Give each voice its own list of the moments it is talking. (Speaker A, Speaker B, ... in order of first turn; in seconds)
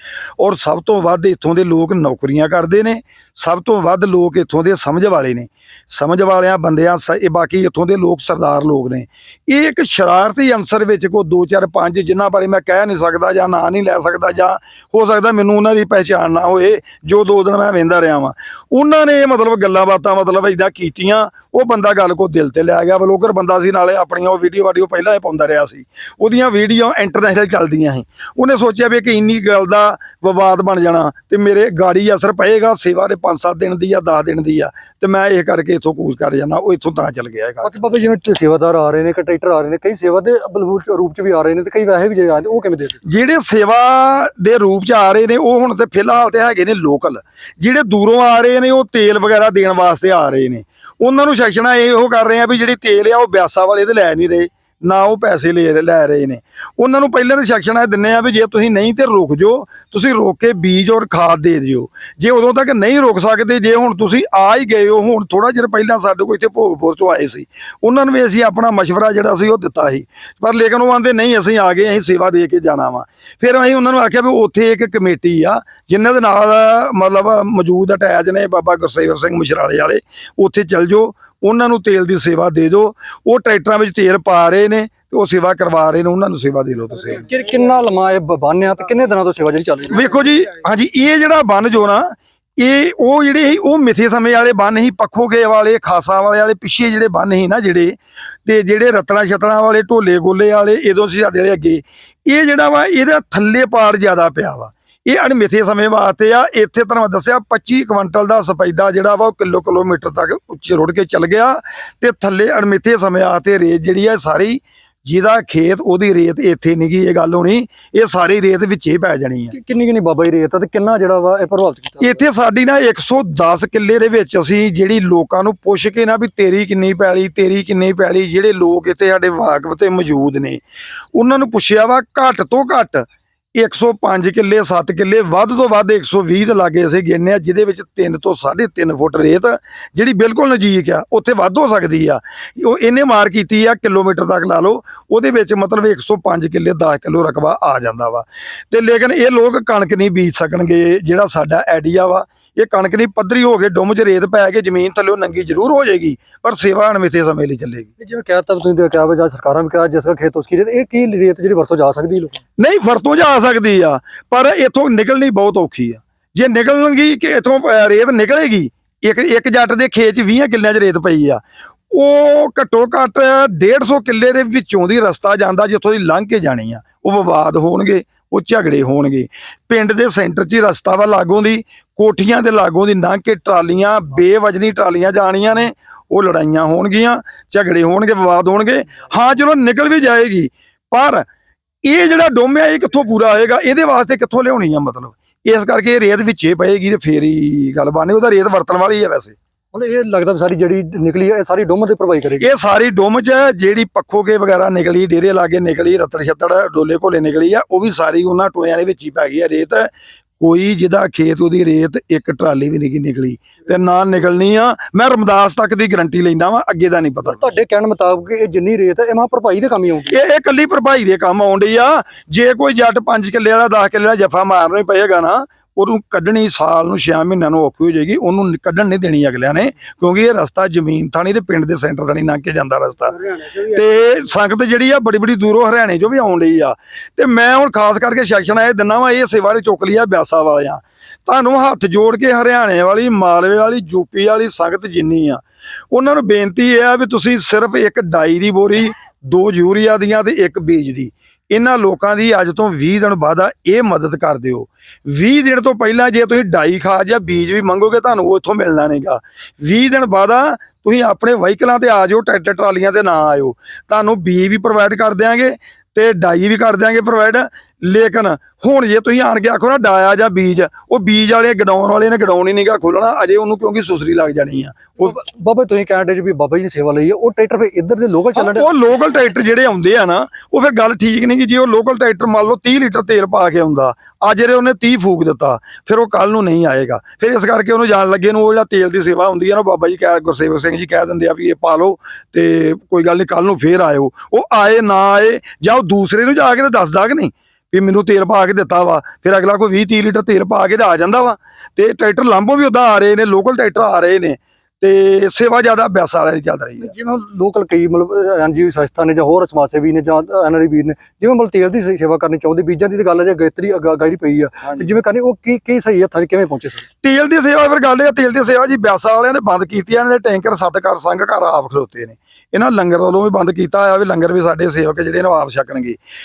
Speaker A: 0.4-37.7, 43.0-87.2, 89.9-119.5, 122.0-130.6, 131.2-157.9, 162.6-191.2, 191.8-199.4, 202.4-217.5, 220.1-275.0, 278.4-306.9, 317.0-326.0
Speaker B: 37.6-43.0, 87.1-90.1, 119.5-122.2, 158.0-162.4, 199.7-202.5, 217.2-220.2, 275.0-278.7, 306.8-316.9